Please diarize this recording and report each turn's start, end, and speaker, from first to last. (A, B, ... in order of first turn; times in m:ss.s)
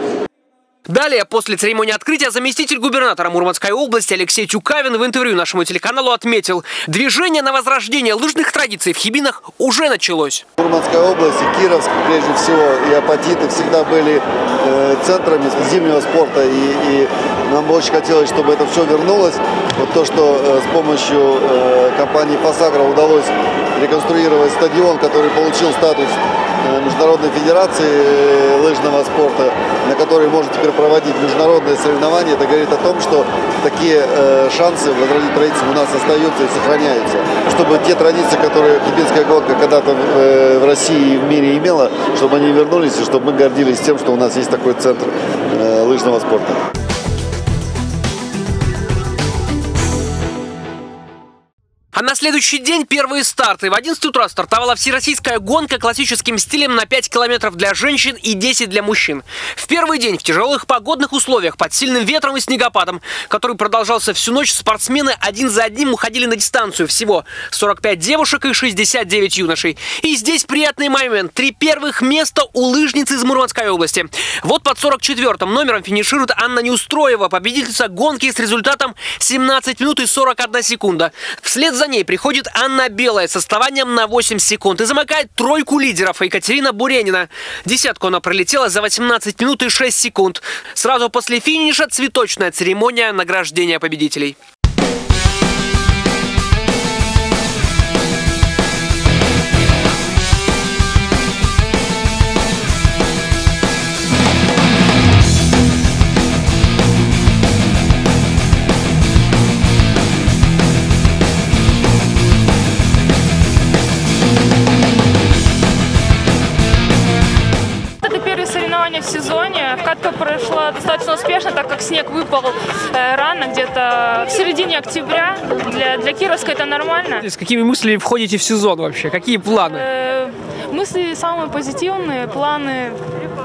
0:00.9-0:10.4 A
0:10.6-0:46.6 B
0:51.9-1:34.4 A
1:58.0-2:07.2 C
2:07.2-2:09.8 A
2:09.7-2:13.0 C